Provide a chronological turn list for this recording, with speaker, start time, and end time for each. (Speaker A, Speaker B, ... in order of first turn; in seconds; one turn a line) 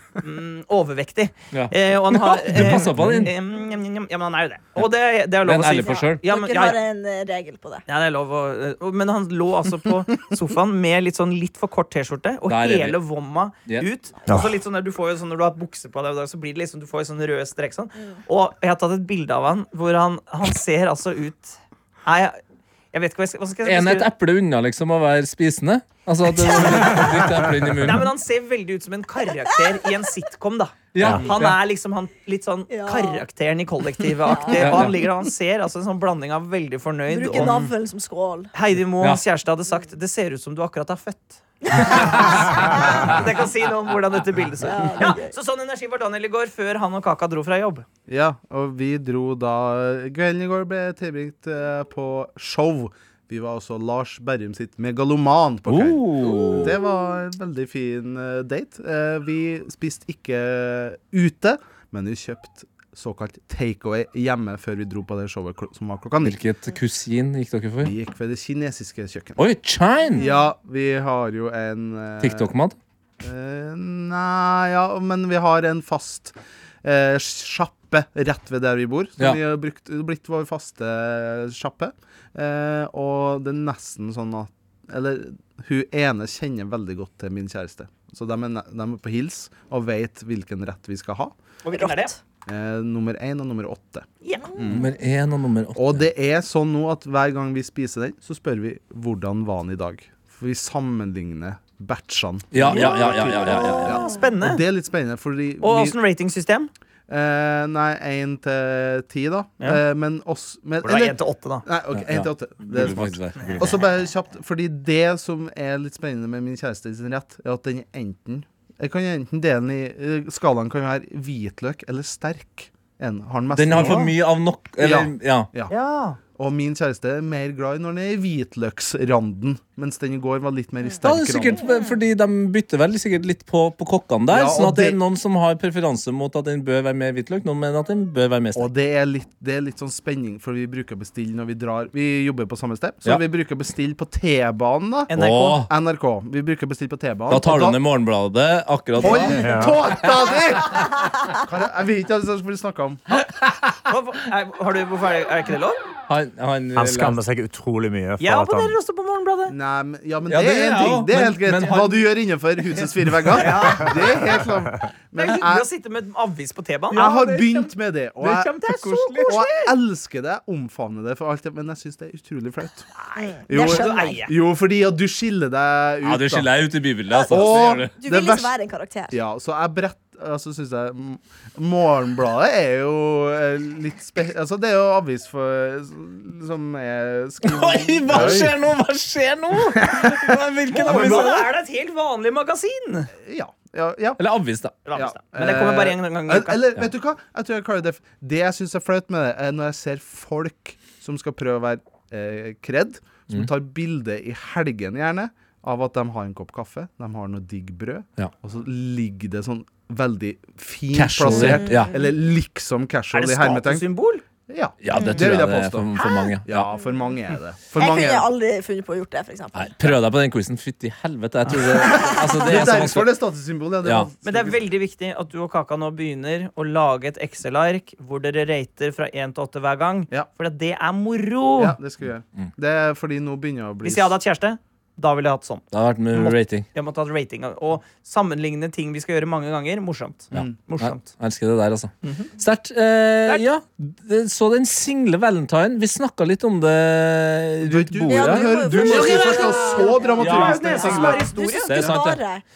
Speaker A: 0.2-6.8
Speaker B: 1.5-3.3
Speaker B: 5.4-6.2
Speaker C: 6.2-7.8
Speaker A: 7.9-22.4
Speaker B: 12.5-13.0
Speaker D: 14.3-14.6
Speaker A: 22.9-24.1
Speaker B: 23.6-28.1
Speaker A: 27.8-37.7
Speaker B: 30.9-31.6
Speaker C: 32.7-33.2
Speaker C: 34.3-34.7
Speaker B: 34.5-35.0
Speaker C: 37.1-38.5
Speaker A: 38.5-47.9
Speaker C: 41.7-42.8
Speaker B: 41.8-43.2
Speaker C: 44.6-45.4
Speaker E: 48.1-66.4
Speaker B: 55.7-56.8
Speaker B: 66.2-67.9
Speaker E: 67.8-69.4
Speaker B: 69.4-70.2
Speaker E: 70.1-72.5
Speaker C: 70.2-70.4
Speaker B: 72.2-72.8
Speaker E: 73.2-91.3
Speaker A: 91.6-92.1
Speaker C: 91.7-92.2
Speaker E: 92.5-94.1
Speaker A: 94.2-94.5
Speaker E: 94.6-94.9
Speaker B: 94.7-96.0
Speaker E: 95.8-106.0
Speaker B: 102.5-104.0
Speaker C: 103.6-104.1
Speaker A: 103.7-104.6
Speaker A: 105.6-106.7
Speaker E: 107.1-124.2
Speaker A: 110.8-111.7
Speaker B: 111.9-113.8
Speaker B: 123.5-125.5
Speaker A: 123.8-124.1
Speaker E: 124.8-125.7
Speaker A: 125.7-126.2
Speaker E: 126.3-131.7
Speaker B: 131.0-138.7
Speaker C: 131.6-131.9
Speaker E: 134.3-135.0
Speaker E: 138.5-147.8
Speaker A: 145.1-145.6
Speaker B: 145.2-145.7
Speaker B: 147.3-149.4
Speaker E: 149.0-153.0
Speaker D: 149.3-149.8
Speaker B: 153.3-153.6
Speaker A: 153.9-155.8
Speaker B: 156.1-157.2
Speaker D: 156.7-158.8
Speaker A: 158.2-159.6
Speaker E: 159.5-165.7
Speaker B: 160.3-162.1
Speaker A: 163.3-164.4
Speaker A: 165.2-167.4
Speaker B: 166.9-167.7
Speaker E: 166.9-172.9
Speaker A: 168.2-169.7
Speaker B: 168.7-169.3
Speaker A: 172.9-174.3
Speaker C: 173.2-174.2
Speaker E: 173.5-176.5
Speaker B: 176.0-178.0
Speaker C: 177.1-179.2
Speaker E: 177.3-178.5
Speaker E: 179.1-188.6
Speaker B: 187.4-191.5
Speaker E: 189.6-191.4
Speaker A: 190.7-193.1
Speaker E: 193.2-194.2
Speaker B: 194.2-194.8
Speaker A: 194.9-196.6
Speaker E: 194.9-213.9
Speaker B: 210.9-211.9
Speaker C: 211.3-211.9
Speaker A: 213.1-214.2
Speaker E: 214.5-218.3
Speaker B: 214.8-216.7
Speaker C: 214.9-215.2
Speaker C: 217.8-219.9
Speaker B: 219.6-223.2
Speaker E: 221.7-224.7
Speaker B: 223.8-224.1
Speaker A: 224.2-231.8
Speaker E: 231.6-234.2
Speaker A: 233.8-241.1
Speaker B: 235.7-236.7
Speaker B: 240.3-252.2
Speaker A: 242.0-242.3
Speaker E: 247.6-251.9
Speaker C: 248.1-252.4
Speaker A: 250.2-251.7